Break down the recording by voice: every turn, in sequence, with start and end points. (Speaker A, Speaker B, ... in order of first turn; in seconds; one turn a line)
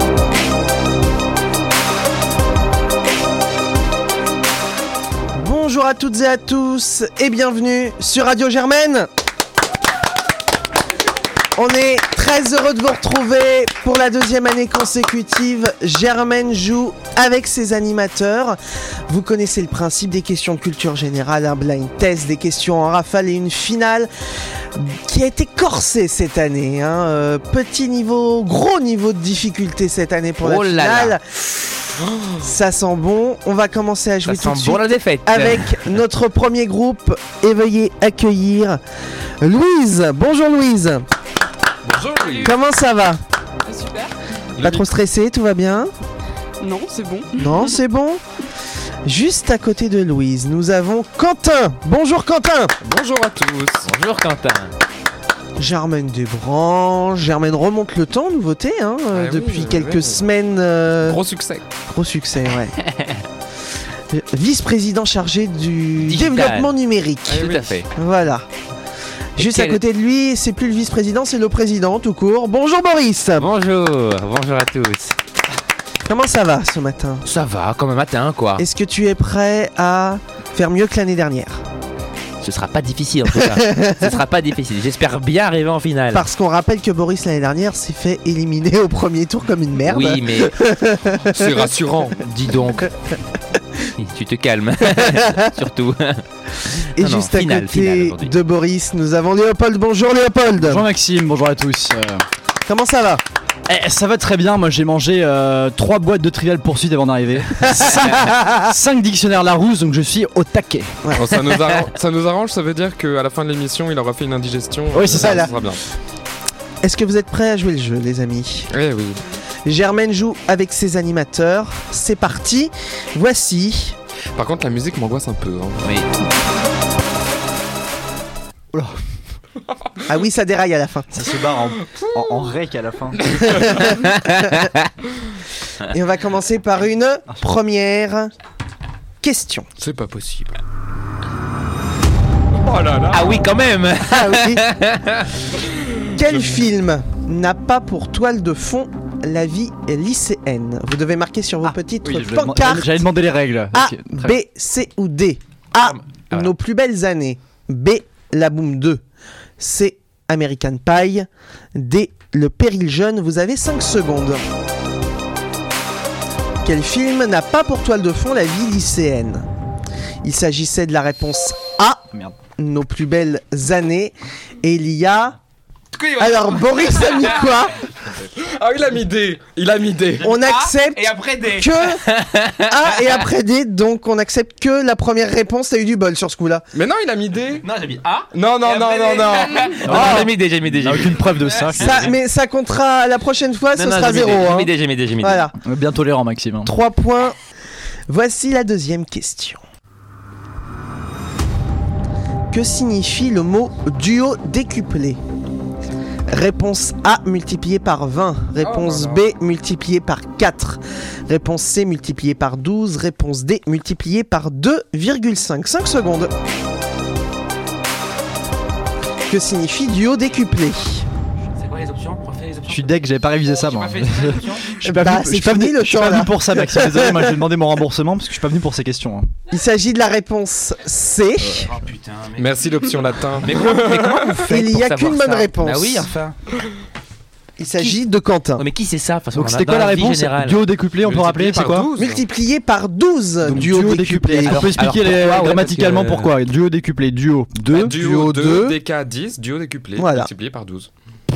Speaker A: 5.3-9.1
Speaker A: 11.6-24.1
Speaker A: 24.7-31.2
Speaker B: 30.4-31.2
Speaker C: 32.0-32.4
Speaker A: 32.4-38.8
Speaker B: 34.2-35.9
Speaker A: 39.4-41.0
Speaker C: 41.8-42.5
Speaker D: 42.1-42.5
Speaker A: 42.4-43.2
Speaker D: 43.6-44.1
Speaker C: 44.6-44.9
Speaker A: 44.6-45.9
Speaker D: 46.6-47.7
Speaker A: 47.3-48.2
Speaker A: 49.0-52.8
Speaker C: 52.8-53.9
Speaker B: 53.9-54.7
Speaker A: 55.6-61.2
Speaker C: 59.1-60.3
Speaker C: 61.0-61.6
Speaker A: 61.9-62.8
Speaker B: 62.9-63.2
Speaker A: 64.1-68.5
Speaker B: 66.0-66.7
Speaker C: 67.3-67.8
Speaker B: 67.3-67.9
Speaker A: 69.4-73.5
Speaker B: 69.4-69.8
Speaker B: 73.4-75.2
Speaker A: 76.0-77.2
Speaker B: 77.2-78.7
Speaker A: 78.6-81.6
Speaker B: 82.4-86.2
Speaker A: 83.3-84.2
Speaker A: 86.1-91.7
Speaker B: 89.9-90.5
Speaker C: 91.2-92.2
Speaker B: 92.2-92.9
Speaker B: 94.0-96.2
Speaker A: 94.9-95.5
Speaker B: 96.8-98.3
Speaker A: 96.9-100.8
Speaker E: 100.5-102.2
Speaker A: 102.6-103.2
Speaker E: 103.7-111.0
Speaker A: 107.6-108.6
Speaker C: 111.1-115.8
Speaker E: 114.9-115.5
Speaker A: 115.1-115.5
Speaker A: 116.8-118.7
Speaker C: 118.7-119.2
Speaker A: 119.6-124.0
Speaker C: 124.3-125.9
Speaker E: 128.7-129.0
Speaker A: 130.1-131.3
Speaker E: 131.1-133.7
Speaker C: 133.3-133.6
Speaker A: 133.5-133.8
Speaker B: 133.9-134.9
Speaker A: 135.9-138.3
Speaker A: 139.2-139.7
Speaker C: 139.8-140.6
Speaker C: 142.5-143.4
Speaker B: 143.1-145.3
Speaker A: 144.0-144.6
Speaker C: 145.8-146.7
Speaker A: 146.2-153.1
Speaker E: 152.0-154.3
Speaker A: 153.7-159.0
Speaker B: 155.8-156.5
Speaker A: 159.6-164.5
Speaker A: 166.6-169.4
Speaker A: 170.2-172.0
Speaker A: 172.6-175.4
Speaker B: 175.9-177.2
Speaker A: 176.2-177.7
Speaker C: 178.4-180.4
Speaker A: 180.2-186.6
Speaker B: 180.4-183.2
Speaker C: 186.7-187.7
Speaker B: 187.6-192.2
Speaker C: 188.3-190.2
Speaker E: 189.8-191.9
Speaker A: 191.8-195.6
Speaker B: 193.7-195.5
Speaker E: 195.6-196.7
Speaker A: 196.6-197.4
Speaker A: 198.1-199.6
Speaker A: 202.5-205.2
Speaker A: 206.3-216.3
Speaker C: 208.6-209.3
Speaker A: 219.3-221.1
Speaker B: 221.6-223.0
Speaker E: 222.7-229.3
Speaker B: 223.6-224.6
Speaker A: 224.8-227.5
Speaker A: 229.5-231.7
Speaker B: 231.7-232.6
Speaker C: 232.4-234.3
Speaker B: 233.4-236.4
Speaker A: 234.4-236.1
Speaker A: 237.6-238.6
Speaker B: 238.6-240.6
Speaker E: 239.3-241.9
Speaker C: 241.0-242.2
Speaker A: 242.0-244.7
Speaker E: 243.4-247.9
Speaker B: 244.4-246.2
Speaker C: 245.9-246.3
Speaker A: 247.7-248.8
Speaker C: 247.7-250.9
Speaker A: 250.0-250.3